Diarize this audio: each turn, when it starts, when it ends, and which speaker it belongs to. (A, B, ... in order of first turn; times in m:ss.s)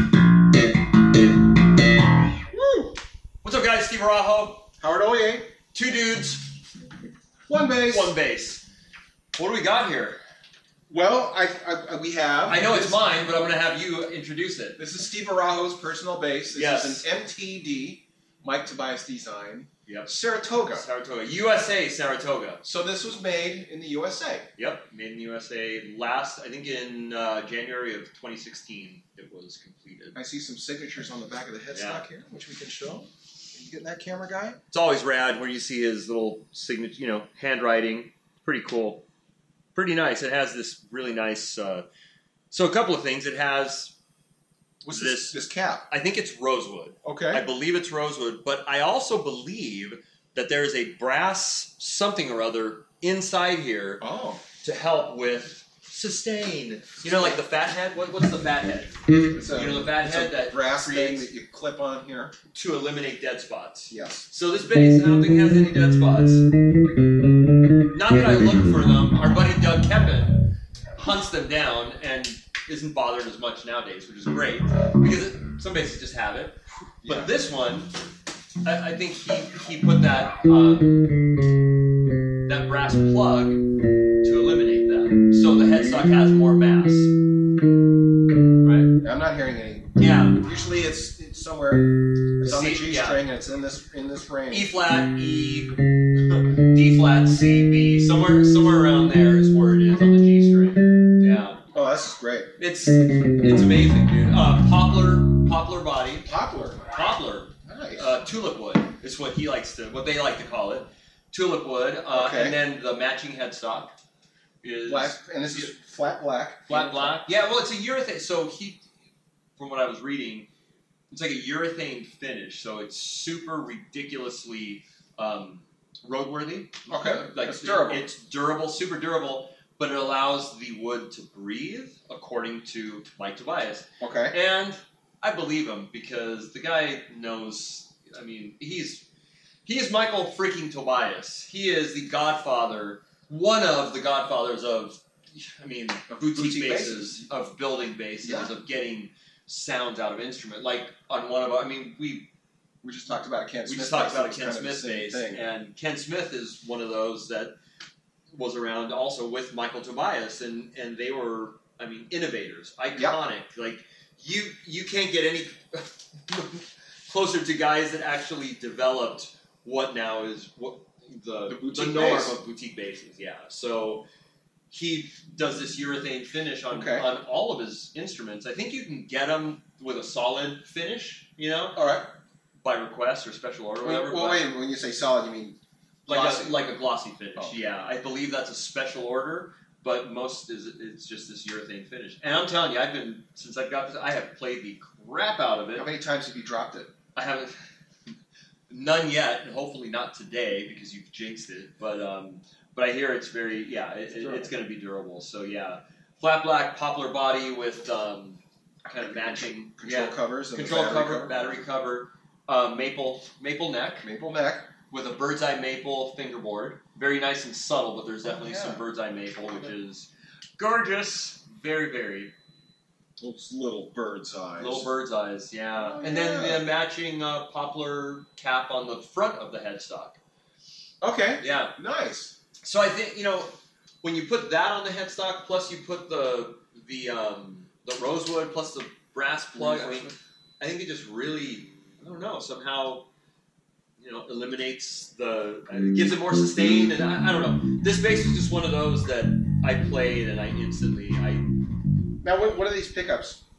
0:02.5-0:03.0 A
0:03.4-0:04.7 B
0:04.8-0:05.5 A
0:05.7-0:06.5 B
0:07.5-0:08.2 A
0:07.9-0:08.6 B
0:09.4-0:10.2 B
0:10.9-0:13.0 A
0:12.5-0:14.8 B
0:14.8-0:20.8 A
0:16.5-0:17.0 B
0:19.9-0:20.1 B
0:20.7-0:22.6 B
0:22.6-0:24.5 A
0:24.6-0:30.2 B
0:30.2-0:34.6 A
0:31.7-0:32.0 B
0:34.7-0:39.0 B
0:39.8-0:41.9 B
0:42.5-0:43.9 B
0:44.8-0:45.8 A
0:44.9-0:54.0 B
0:47.0-0:47.4 A
0:54.0-0:54.4 A
0:54.6-0:58.9 B
0:57.0-0:57.4 A
0:59.3-1:02.3 A
0:59.5-1:01.3 B
1:02.5-1:06.4 B
1:03.9-1:04.3 A
1:07.9-1:17.9 B
1:17.0-1:17.3 A
1:18.6-1:21.0 B
1:22.5-1:23.6 B
1:24.2-1:27.1 B
1:28.6-1:28.9 B
1:29.0-1:31.9 A
1:30.0-1:30.4 B
1:32.4-1:34.7 A
1:32.4-1:33.2 B
1:34.5-1:41.6 B
1:41.7-1:42.5 A
1:42.6-1:46.3 B
1:46.2-1:46.8 A
1:46.9-1:54.0 B
1:47.6-1:48.2 A
1:52.1-1:52.6 A
1:54.6-1:55.7 B
1:54.9-1:57.3 A
1:56.7-1:58.8 B
1:59.6-2:00.5 B
2:01.1-2:19.1 B
2:06.9-2:08.1 A
2:14.0-2:14.4 A
2:19.7-2:32.3 B
2:26.1-2:27.2 A
2:28.2-2:28.5 A
2:32.8-2:35.4 A
2:33.6-2:37.5 B
2:38.3-2:54.1 B
2:51.5-2:52.4 A
2:54.7-3:01.8 B
2:56.7-2:57.1 A
3:01.8-3:02.0 A
3:02.6-3:04.4 B
3:03.8-3:06.6 A
3:06.1-3:15.9 B
3:15.8-3:16.9 A
3:17.2-3:17.5 B
3:18.7-3:34.1 B
3:24.1-3:24.5 A
3:29.0-3:31.6 A
3:34.0-3:34.7 A
3:34.9-3:42.3 B
3:38.2-3:38.9 A
3:43.2-3:44.9 A
3:44.6-3:50.2 B
3:45.8-3:46.6 A
3:51.0-3:52.4 A
3:51.4-3:51.7 B
3:52.6-4:03.1 B
3:59.6-4:00.1 A
4:04.0-4:11.5 B
4:12.2-4:13.4 A